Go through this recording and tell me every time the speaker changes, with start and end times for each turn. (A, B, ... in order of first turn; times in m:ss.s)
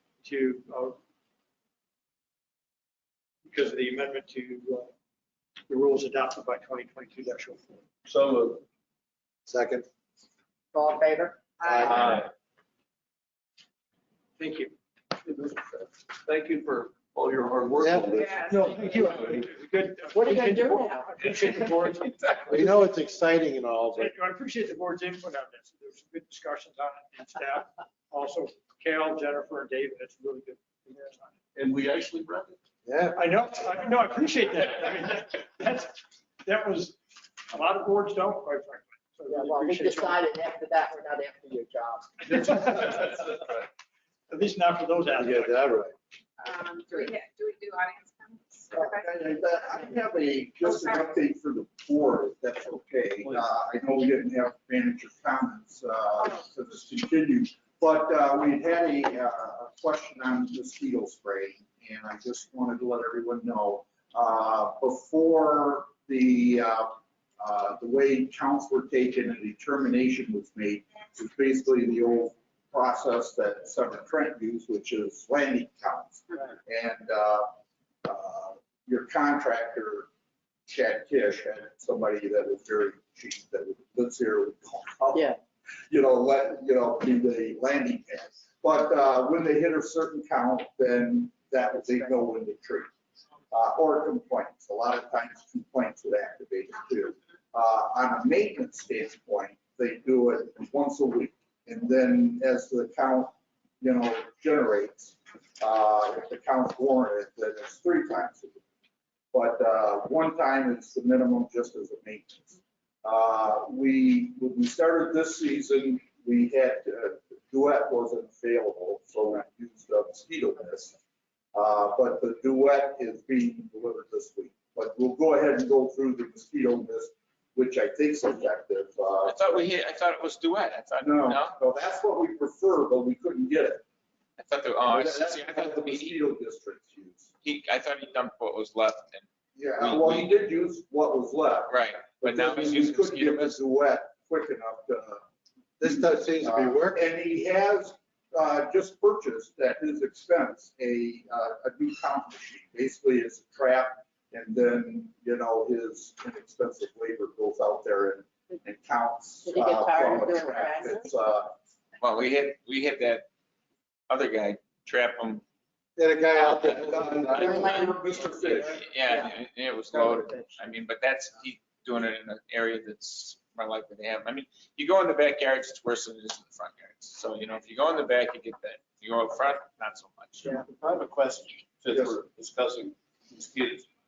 0:00.2-0:01.0 A
0:03.4-0:04.9 A
0:05.7-0:07.8 A
0:08.1-0:08.6 B
0:09.5-0:09.9 C
0:10.7-0:11.9 D
0:11.6-0:11.9 C
0:11.9-0:12.3 B
0:14.4-0:14.7 A
0:15.2-0:18.4 B
0:18.2-0:19.0 E
0:18.4-0:22.9 A
0:19.0-0:19.5 B
0:20.1-0:21.1 D
0:22.5-0:24.1 C
0:23.9-0:31.4 A
0:31.6-0:32.6 B
0:32.9-0:33.2 C
0:33.1-0:40.2 A
0:39.3-0:42.3 D
0:42.2-0:43.4 A
0:44.3-0:45.8 A
0:45.2-0:45.9 C
0:46.4-0:49.1 E
0:48.7-1:17.5 F
0:50.7-0:51.0 E
1:18.0-1:20.1 F
1:20.7-1:25.3 F
1:25.9-1:32.9 F
1:33.5-1:48.6 F
1:49.3-2:01.0 F
2:01.5-2:09.6 F
2:09.2-2:11.6 G
2:11.0-2:13.8 F
2:14.4-2:16.2 G
2:14.9-2:17.3 F
2:17.4-2:20.4 G
2:19.6-2:25.2 F
2:21.7-2:23.6 G
2:25.8-2:27.0 C
2:25.8-2:41.5 F
2:39.4-2:41.1 D
2:42.0-2:43.3 G
2:44.1-2:45.4 G
2:46.0-2:47.7 C
2:46.4-2:47.7 G
2:46.7-2:48.8 F
2:47.4-2:47.9 D
2:48.7-3:00.5 G
2:50.2-2:50.4 D
3:00.6-3:03.9 B